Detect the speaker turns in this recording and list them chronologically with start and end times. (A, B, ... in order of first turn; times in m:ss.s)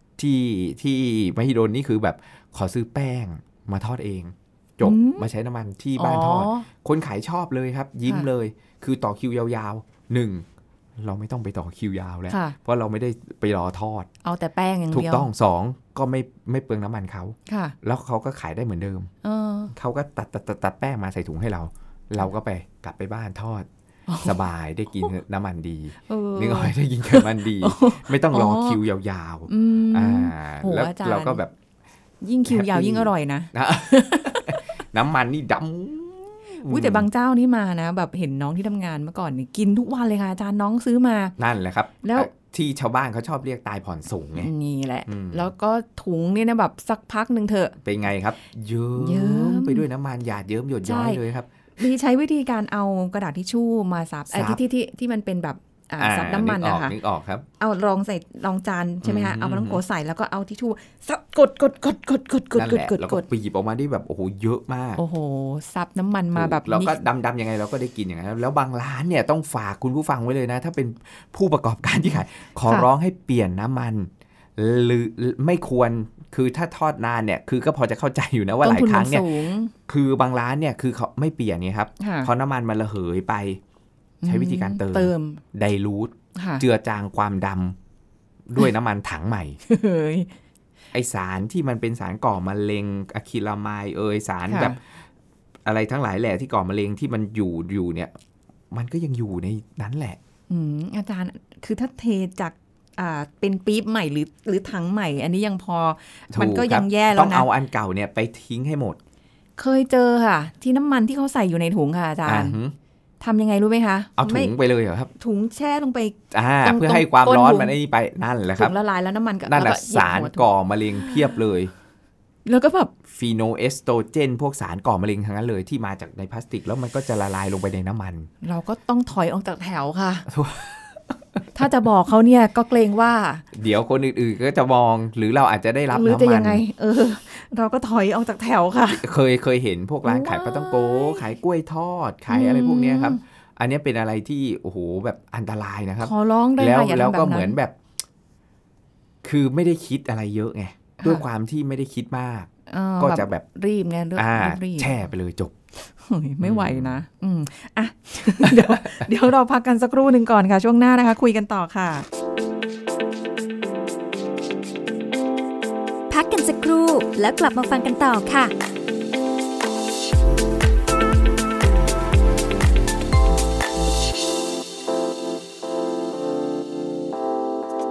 0:00.2-0:10.5 A
0:04.8-0:05.3 B
0:06.0-0:06.7 B
0:11.0-0:14.1 A
0:12.3-0:12.6 B
0:14.2-0:15.3 B
0:14.9-0:19.1 A
0:17.5-0:17.8 B
0:19.2-0:19.7 B
0:19.7-0:23.7 A
0:24.1-0:24.4 B
0:24.2-0:31.5 A
0:26.1-0:28.8 B
0:29.5-0:31.4 B
0:32.2-0:34.6 B
0:32.5-0:37.1 A
0:36.7-0:41.4 B
0:41.4-0:44.5 A
0:42.0-0:42.3 B
0:44.4-0:47.8 B
0:45.1-0:45.5 A
0:47.8-0:51.5 A
0:49.0-0:49.9 B
0:50.8-0:51.2 B
0:51.8-0:57.0 B
0:54.3-0:54.6 A
0:56.0-0:57.5 A
0:57.6-1:03.2 B
0:59.0-0:59.8 A
1:02.6-1:05.0 A
1:05.0-1:07.0 B
1:06.3-1:19.3 A
1:18.6-1:19.7 B
1:19.9-1:23.6 A
1:22.0-1:22.3 B
1:24.2-1:25.4 B
1:24.2-1:27.8 A
1:26.4-1:26.6 B
1:28.5-1:29.6 A
1:29.7-1:30.3 B
1:30.9-1:34.8 A
1:34.5-1:34.8 B
1:35.6-1:38.1 A
1:38.7-1:40.2 A
1:40.5-1:47.5 B
1:46.3-1:49.0 A
1:49.6-1:52.6 B
1:52.2-1:52.8 A
1:53.2-1:54.5 B
1:54.2-1:55.1 A
1:55.2-1:57.8 B
1:56.3-1:58.7 A
1:58.6-2:00.5 B
1:59.5-2:01.7 A
2:02.5-2:02.9 B
2:03.1-2:08.3 A
2:08.4-2:10.3 B
2:10.3-2:11.4 A
2:11.6-2:13.4 B
2:13.5-2:16.6 A
2:15.9-2:19.0 B
2:18.9-2:27.8 A
2:20.0-2:21.2 B
2:22.3-2:23.2 B
2:26.0-2:27.6 B
2:29.2-2:33.4 A
2:32.7-2:35.0 B
2:34.2-2:35.5 A
2:36.0-2:42.1 B
2:36.4-2:37.0 A
2:38.4-2:39.1 A
2:46.1-2:48.5 C